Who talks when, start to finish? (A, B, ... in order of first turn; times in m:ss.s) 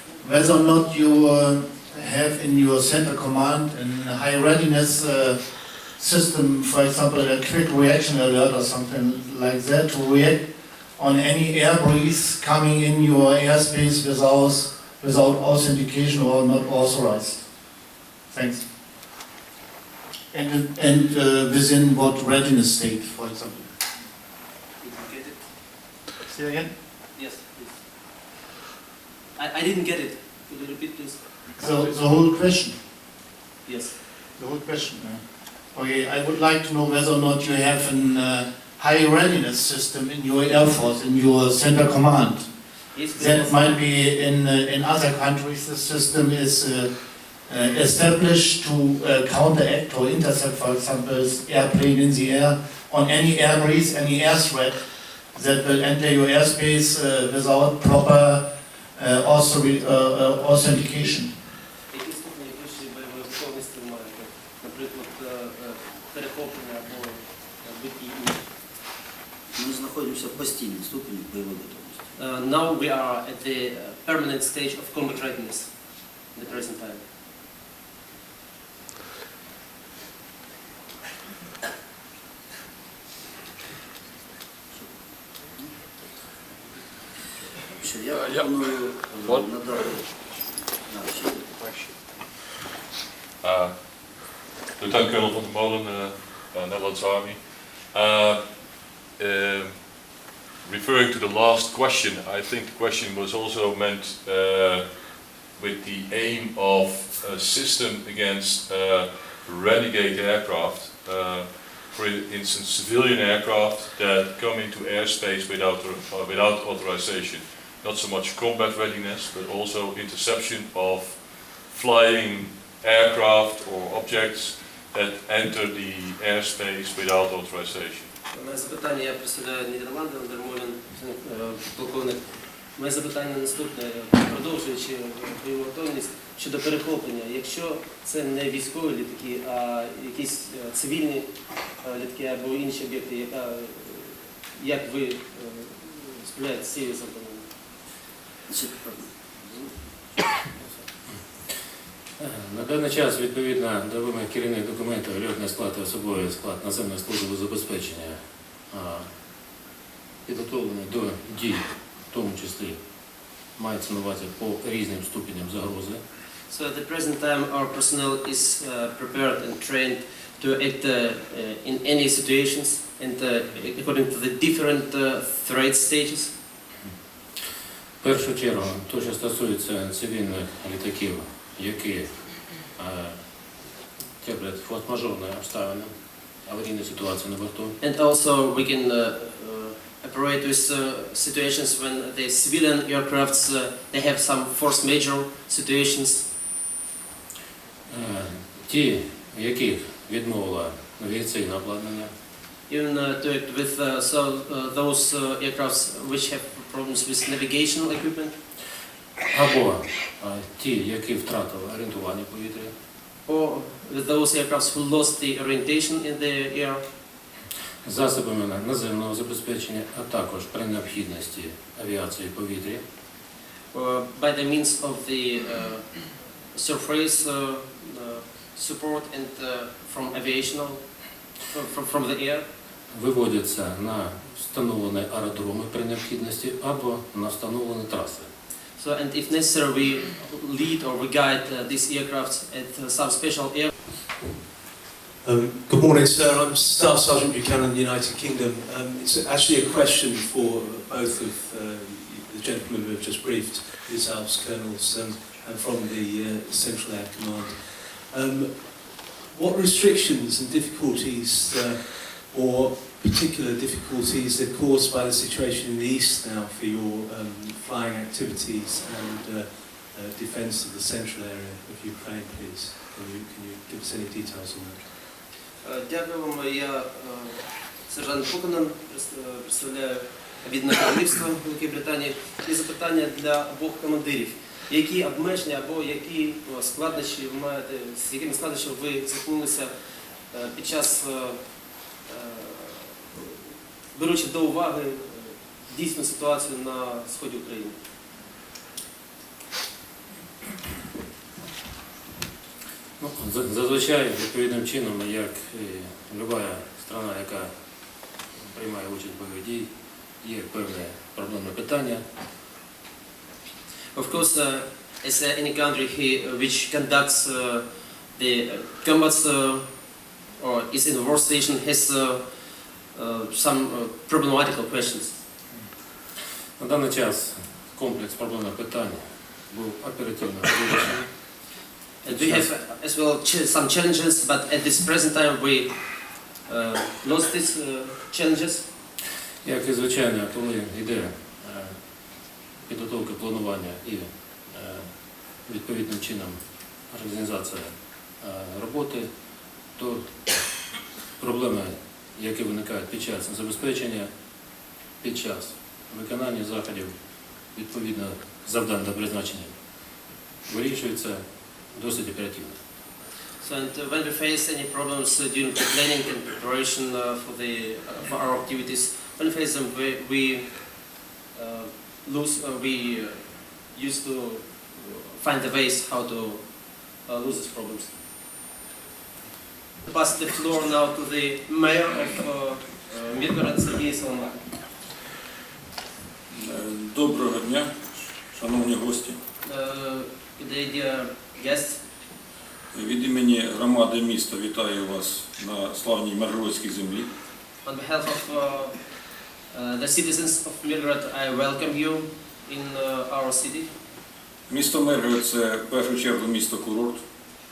0:00.2-0:17.6 A
0:18.3-0:18.7 A
0:20.3-0:23.7 A
0:24.8-0:25.4 B
0:26.3-0:26.7 A
0:27.1-0:27.8 B
0:29.4-0:31.5 B
0:31.6-0:32.8 A
0:33.6-0:34.0 B
0:34.4-0:42.5 A
0:42.9-0:43.8 B
0:43.1-0:58.4 A
0:59.0-1:01.3 A
1:01.9-1:08.5 B
1:09.5-1:12.1 C
1:12.2-1:17.0 B
1:24.7-1:25.8 C
1:27.6-1:31.7 C
1:33.4-2:08.1 D
2:08.3-2:27.5 B
2:28.5-2:29.8 C
2:31.1-2:31.4 E
2:32.2-2:39.1 E
2:40.2-2:46.0 E
2:46.5-2:56.3 B
2:58.0-3:03.6 E
3:04.2-3:07.8 E
3:07.8-3:16.3 B
3:17.9-3:22.1 E
3:22.7-3:28.3 B
3:29.3-3:32.7 E
3:33.2-3:36.8 B
3:37.8-3:42.8 E
3:43.7-3:52.4 B
3:52.9-3:58.3 E
3:58.8-4:03.7 B
4:05.2-4:34.9 F
4:35.6-4:49.7 B
4:50.3-4:53.3 B
4:53.9-4:57.8 B
5:03.0-5:07.5 E
5:08.2-5:12.0 E
5:13.9-5:25.2 B
5:26.6-5:31.5 E
5:32.0-5:38.7 B
5:32.1-5:32.5 E
5:39.4-5:49.1 E
5:49.7-5:50.7 E
5:51.2-5:54.1 E
5:55.0-5:56.9 E
5:57.4-5:59.6 E
6:00.4-6:02.6 E
6:03.4-6:17.9 B
6:19.8-6:24.4 B
6:26.4-6:27.7 G
6:28.3-6:29.2 G
6:29.4-6:31.8 B
6:32.7-6:37.1 G
6:37.6-6:43.7 B
6:44.5-6:47.0 G